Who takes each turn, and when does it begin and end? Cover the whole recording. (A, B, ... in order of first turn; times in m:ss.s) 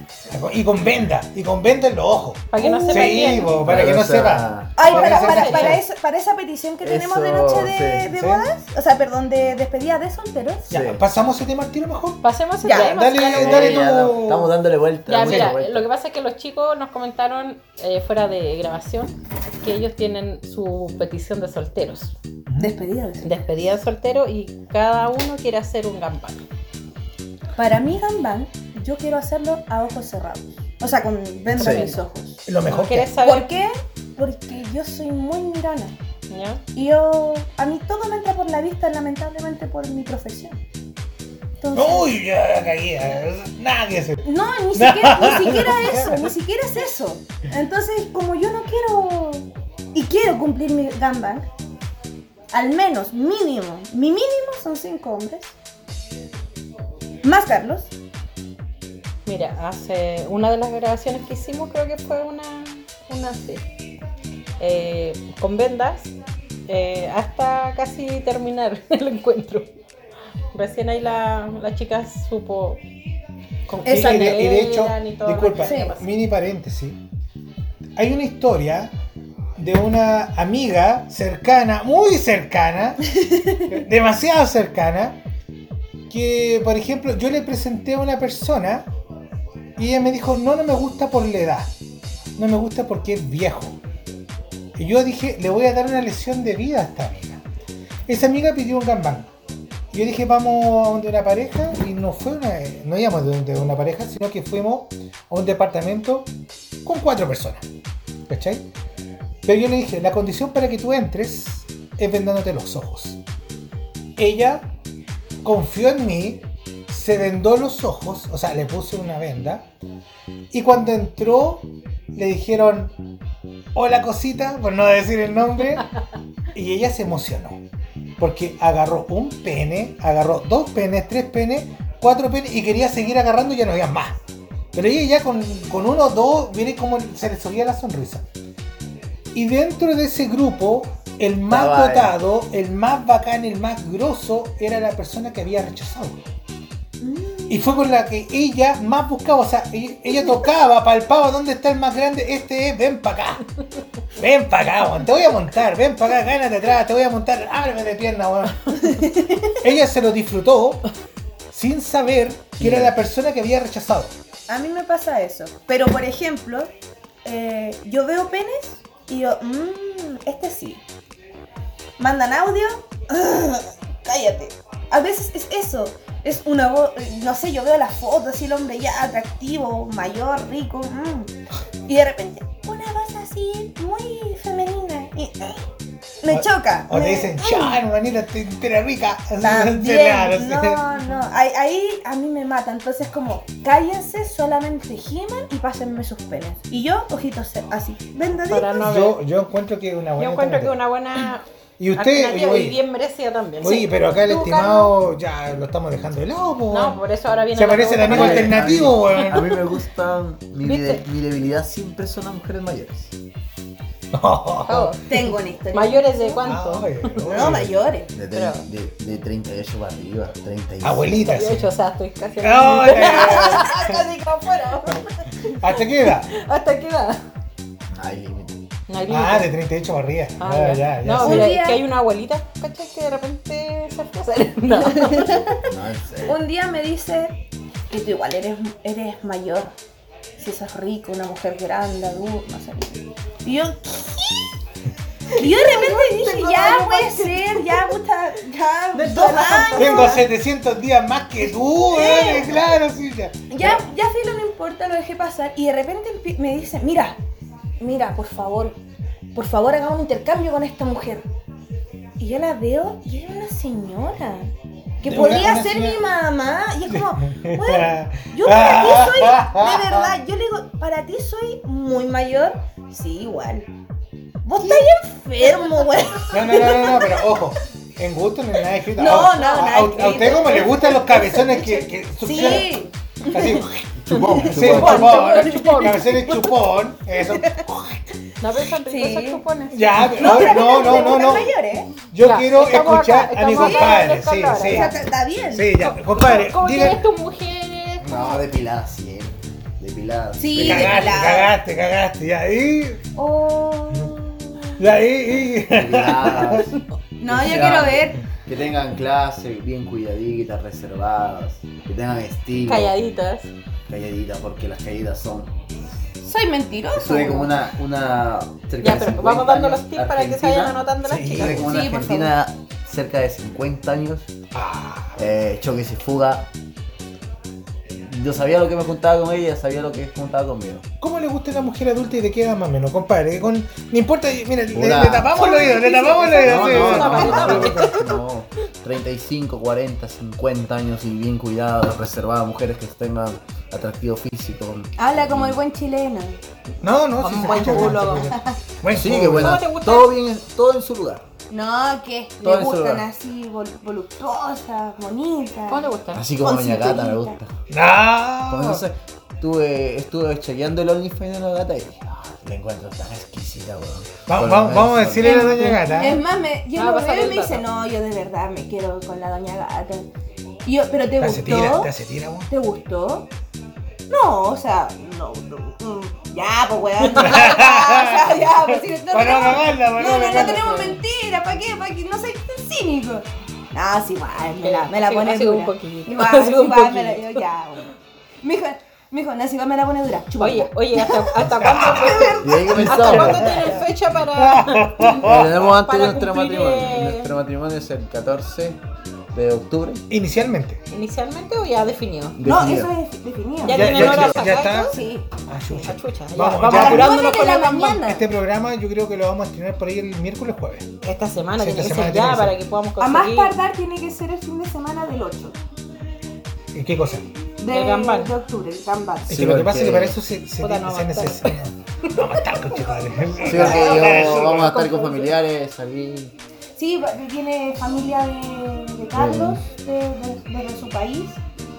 0:00.3-0:05.8 A
0:02.5-0:03.6 B
0:02.8-0:03.5 C
0:03.6-0:04.7 D
0:04.8-0:10.8 C
0:04.8-0:05.8 B
0:06.8-0:08.0 D
0:08.1-0:08.4 A
0:10.7-0:14.5 A
0:10.7-0:11.0 D
0:12.2-0:13.8 B
0:12.6-0:13.8 C
0:13.3-0:15.9 D
0:15.1-0:22.1 B
0:15.2-0:15.5 A
0:22.6-0:23.2 C
0:23.2-0:26.4 B
0:27.5-0:32.4 C
0:31.6-0:31.9 D
0:31.6-0:32.0 B
0:32.4-0:33.2 A
0:32.6-0:33.5 B
0:33.2-0:35.9 C
0:36.3-0:36.6 B
0:36.7-0:40.6 C
0:41.6-0:42.1 C
0:41.7-0:46.3 A
0:44.2-0:51.5 C
0:52.5-0:55.5 C
0:57.2-0:57.9 C
0:59.2-1:03.6 B
1:04.6-1:06.1 B
1:06.7-1:09.7 B
1:10.5-1:12.8 B
1:13.7-1:16.1 B
1:13.8-1:17.0 A
1:13.8-1:14.4 C
1:15.6-1:15.9 C
1:18.0-1:18.9 A
1:19.6-1:23.0 A
1:23.7-1:25.2 A
1:26.1-1:28.9 A
1:29.8-1:31.7 A
1:32.4-1:33.8 A
1:34.8-1:37.4 A
1:38.1-1:39.3 A
1:39.9-1:46.3 A
1:46.8-1:47.6 A
1:48.3-1:48.7 A
1:49.4-1:53.2 A
1:54.2-1:54.7 A
1:55.4-1:59.6 A
2:00.5-2:02.9 A
2:03.7-2:05.9 A
2:06.5-2:07.6 A
2:08.2-2:14.2 A
2:14.7-2:18.2 A
2:19.3-2:26.2 A
2:21.5-2:22.1 D
2:27.0-2:27.7 C
2:27.5-2:33.4 A
2:34.2-2:38.6 A
2:38.9-2:39.6 C
2:39.6-2:40.8 A
2:41.5-2:44.1 A
2:42.6-2:42.9 D
2:44.5-2:46.7 C
2:47.2-2:50.8 C
2:52.0-3:01.3 C
3:01.9-3:05.5 C
3:06.2-3:07.8 C
3:06.3-3:10.8 A
3:09.4-3:18.9 C
3:18.5-3:19.2 B
3:18.8-3:20.8 A
3:20.2-3:24.9 B
3:21.8-3:22.8 A
3:23.6-3:27.0 A
3:26.7-3:29.6 B
3:27.5-3:29.4 A
3:28.0-3:33.1 D
3:30.6-3:31.0 B
3:34.1-3:35.0 A
3:34.6-3:35.0 B
3:35.1-3:36.4 C
3:35.7-3:37.2 B
3:36.4-3:37.7 A
3:37.2-3:38.1 C
3:37.2-3:41.4 D
3:38.3-3:38.6 B
3:40.8-3:41.7 A
3:41.2-3:45.5 B
3:42.4-3:43.9 A
3:43.0-3:44.9 C
3:45.5-3:46.3 A
3:46.0-3:47.2 B
3:47.9-3:48.6 D
3:48.9-3:49.5 B
3:49.1-3:51.6 A
3:50.4-3:55.6 B
3:51.2-3:51.8 C
3:54.9-3:55.4 C
3:55.7-3:56.3 D
3:56.2-3:59.7 C
4:00.4-4:04.5 C
4:05.3-4:10.3 C
4:05.4-4:07.9 B
4:08.9-4:10.2 B
4:09.4-4:13.8 A
4:11.9-4:12.7 C
4:13.5-4:17.2 C
4:17.8-4:18.8 C
4:19.3-4:21.2 C
4:22.2-4:24.5 C
4:25.0-4:33.7 C
4:25.0-4:26.1 A
4:27.3-4:30.1 A
4:34.4-4:37.4 C
4:36.3-4:42.8 A
4:38.9-4:43.6 C
4:39.0-4:39.5 B
4:43.3-4:43.8 A
4:44.0-4:45.0 D
4:44.1-4:46.0 C
4:44.4-4:48.0 A
4:44.6-4:46.6 B
4:48.4-4:51.2 B
4:48.8-4:49.4 C
4:49.7-4:57.0 A
4:50.1-4:51.9 C
4:52.2-4:54.9 B
4:53.6-4:55.7 C
4:55.7-4:58.1 B
4:58.0-5:01.2 D
5:00.4-5:01.5 C
5:00.5-5:03.0 A
5:03.2-5:04.8 C
5:04.8-5:06.7 A
5:05.7-5:06.7 D
5:07.2-5:08.2 C
5:07.2-5:12.9 D
5:07.5-5:07.8 A
5:12.6-5:13.5 B
5:13.9-5:15.6 D
5:16.2-5:17.5 C
5:16.9-5:24.3 D
5:18.8-5:21.7 B
5:21.0-5:21.8 A
5:21.6-5:22.3 C
5:24.5-5:25.2 A
5:25.2-5:26.5 D
5:27.9-5:30.8 D
5:31.0-5:37.9 A
5:34.7-5:35.4 D
5:35.3-5:37.8 C
5:36.4-5:45.6 D
5:36.7-5:38.2 B
5:45.0-5:46.4 C
5:46.8-5:49.6 A
5:47.2-5:48.5 B
5:47.4-5:48.2 C
5:48.9-5:51.2 D
5:49.4-5:50.1 B
5:51.5-5:57.4 C
5:52.4-5:53.1 D
5:55.7-5:56.2 B
5:56.1-5:57.5 D
5:57.7-5:58.8 A
5:58.5-6:05.4 D
6:04.3-6:06.2 A
6:05.2-6:10.0 C
6:05.2-6:06.0 B
6:06.8-6:07.6 B
6:10.6-6:11.9 C
6:11.2-6:12.5 A
6:12.5-6:13.3 C
6:14.1-6:33.3 C
6:17.0-6:17.6 B
6:17.2-6:18.6 A
6:19.1-6:20.7 A
6:20.0-6:21.0 B
6:24.6-6:27.4 B
6:30.4-6:37.3 B
6:31.4-6:32.3 A
6:32.4-6:33.5 D
6:33.0-6:33.8 A
6:34.4-6:35.6 A
6:35.2-6:38.8 D
6:39.3-6:40.0 D
6:40.1-6:40.8 A
6:40.9-6:42.4 B
6:42.4-6:42.9 D
6:42.4-6:44.1 C
6:43.6-6:44.9 B
6:43.7-6:47.4 A
6:43.8-6:44.4 D
6:44.9-6:45.3 C
6:45.7-6:48.0 B
6:46.6-6:48.2 C
6:48.0-6:50.8 A
6:51.0-6:53.6 B
6:51.6-6:52.5 A
6:53.0-6:55.6 C
6:56.7-6:57.2 A
6:57.6-6:59.4 C
6:57.7-6:58.3 B
6:59.3-7:04.8 A
6:59.3-7:00.2 D
7:00.6-7:01.5 B
7:03.4-7:06.3 D
7:03.5-7:04.4 C
7:03.5-7:05.4 B
7:06.8-7:11.4 C
7:09.1-7:09.6 D